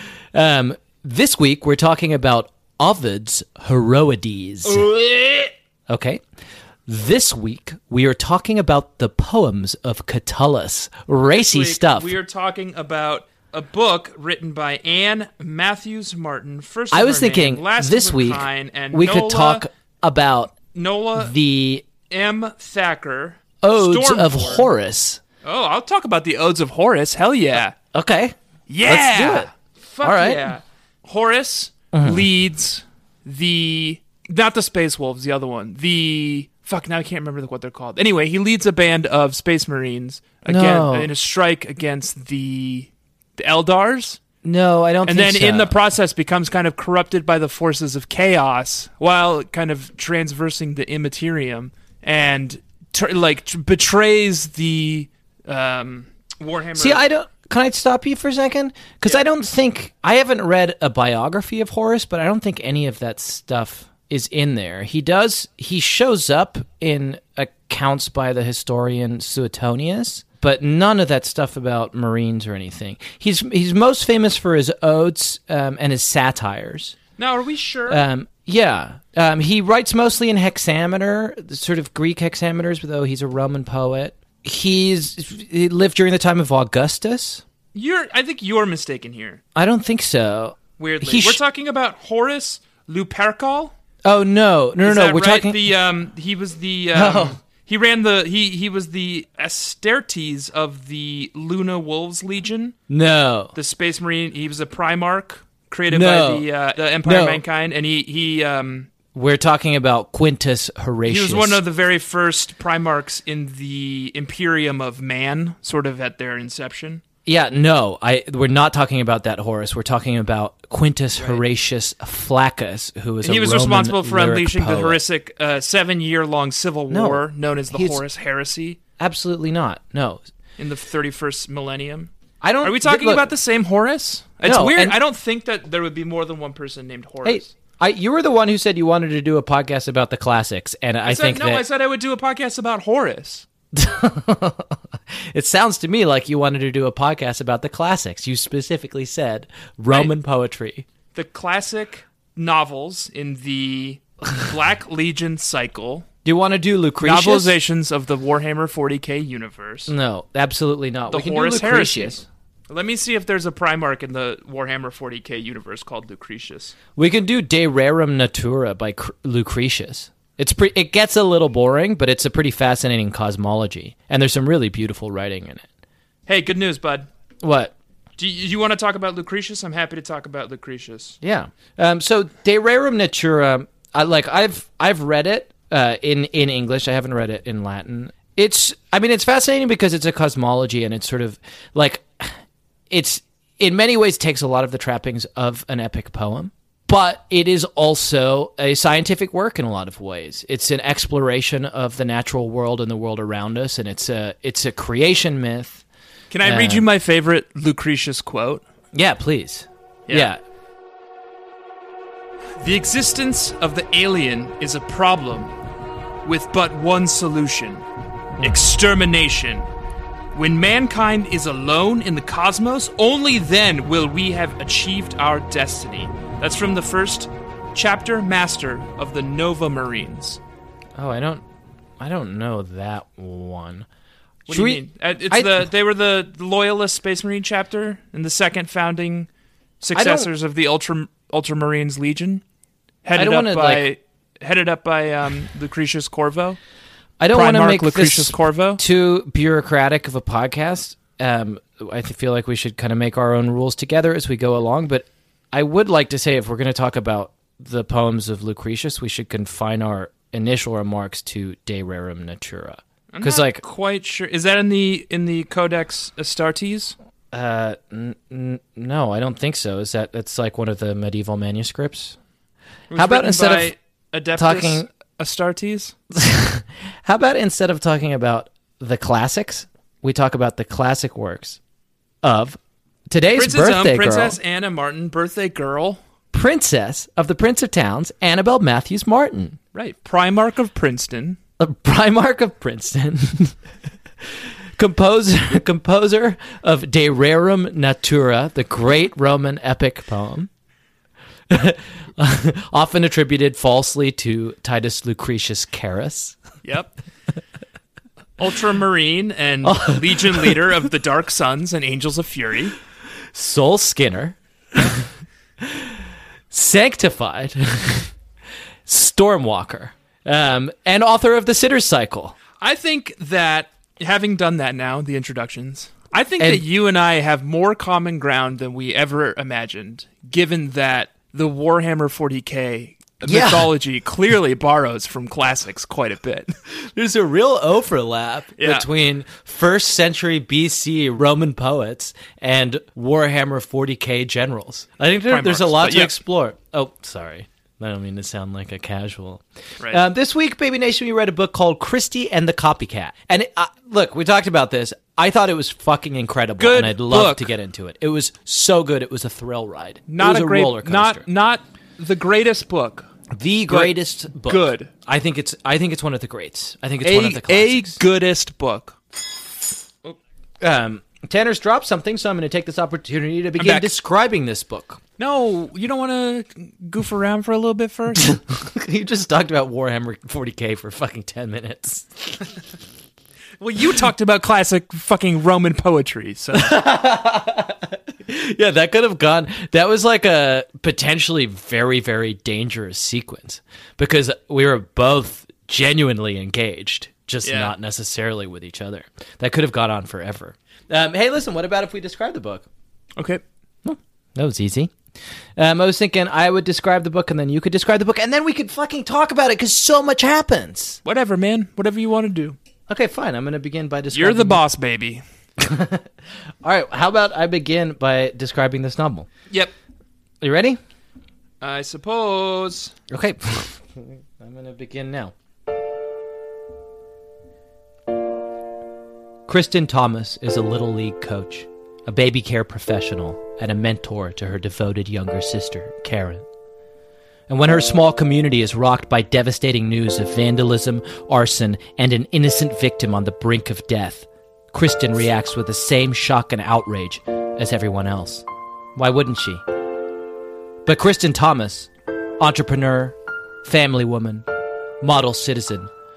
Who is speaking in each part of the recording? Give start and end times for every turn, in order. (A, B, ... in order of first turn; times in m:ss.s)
0:00.3-0:04.9 A
0:04.6-0:05.5 B
0:05.9-0:06.2 A
0:06.9-0:12.2 A
0:11.3-0:19.6 B
0:16.9-0:20.6 A
0:20.7-0:21.3 B
0:21.2-0:21.8 A
0:22.1-0:24.7 B
0:23.6-0:25.2 A
0:25.4-0:27.7 B
0:27.9-0:29.5 A
0:28.7-0:44.2 B
0:30.0-0:30.5 A
0:31.9-0:32.3 A
0:40.4-0:41.1 A
0:44.4-0:45.7 A
0:45.0-0:57.0 B
0:56.8-1:17.0 A
1:17.2-1:18.0 B
1:17.9-1:27.4 A
1:27.7-1:29.4 B
1:29.5-1:31.4 A
1:30.8-1:33.7 B
1:34.0-1:35.6 A
1:34.8-1:42.8 B
1:36.9-1:37.4 A
1:42.9-1:43.5 A
1:43.5-1:48.9 B
1:45.9-1:46.5 A
1:47.0-1:47.4 A
1:49.1-1:51.6 A
1:51.0-1:57.0 B
1:57.2-2:05.0 A
2:03.2-2:08.8 B
2:06.9-2:08.0 A
2:09.0-2:10.2 A
2:10.6-2:12.1 B
2:12.4-2:13.3 A
2:12.6-2:17.5 B
2:14.4-2:15.0 A
2:17.2-2:21.6 A
2:21.0-2:23.4 B
2:23.7-2:30.8 A
2:31.1-2:36.0 B
2:36.2-2:37.6 A
2:37.0-2:39.9 B
2:39.9-2:42.2 A
2:41.1-2:42.2 B
2:42.7-2:46.8 B
2:47.0-2:55.6 A
2:56.3-2:57.1 B
2:57.4-2:57.7 A
2:58.2-3:01.2 B
3:01.2-3:12.4 A
3:12.9-3:25.8 A
3:26.3-3:28.6 B
3:26.4-3:26.8 A
3:28.9-3:30.4 A
3:32.6-3:35.5 B
3:36.2-3:37.8 B
3:38.4-3:39.7 B
3:40.3-3:50.4 B
3:51.0-3:51.4 A
3:52.0-3:53.9 A
3:54.5-3:59.3 B
3:54.5-3:55.6 A
3:59.8-4:02.4 B
3:59.9-4:00.3 A
4:03.0-4:06.6 B
4:03.2-4:03.9 A
4:07.2-4:23.6 A
4:07.3-4:08.8 B
4:23.1-4:26.9 B
4:27.3-4:32.2 A
4:32.9-4:35.9 B
4:32.9-4:33.7 A
4:34.4-4:34.9 A
4:36.1-4:41.6 A
4:42.2-4:44.4 A
4:43.3-4:46.0 B
4:46.3-4:49.6 A
4:49.7-4:51.4 B
4:51.6-4:53.6 A
4:54.2-5:00.5 A
5:01.5-5:06.4 A
5:06.6-5:07.0 B
5:08.4-5:12.8 B
5:09.6-5:10.6 A
5:13.3-5:15.0 A
5:15.6-5:18.1 A
5:18.9-5:22.4 A
5:22.6-5:36.5 B
5:26.4-5:26.6 A
5:33.2-5:33.7 A
5:36.7-6:01.2 A
5:38.6-5:38.9 B
5:45.3-5:46.2 B
5:56.6-5:57.5 B
6:00.1-6:03.1 B
6:03.3-6:08.0 A
6:03.7-6:04.9 B
6:07.0-6:09.0 B
6:10.6-6:15.0 A
6:13.6-6:13.9 B
6:15.2-6:18.4 B
6:18.3-6:22.5 A
6:23.6-6:26.8 B
6:26.5-6:42.6 A
6:37.4-6:37.7 B
6:43.2-6:43.4 B
6:43.8-6:44.9 A
6:45.6-6:51.0 A
6:51.0-6:52.6 B
6:52.9-6:54.6 A
6:54.1-6:55.2 B
6:55.6-6:56.1 A
6:56.6-6:59.3 A
7:00.4-7:00.8 A
7:01.6-7:02.9 B
7:03.1-7:05.3 A
7:09.5-7:16.4 A
7:17.5-7:29.6 A
7:30.8-7:34.4 A
7:35.0-7:35.9 A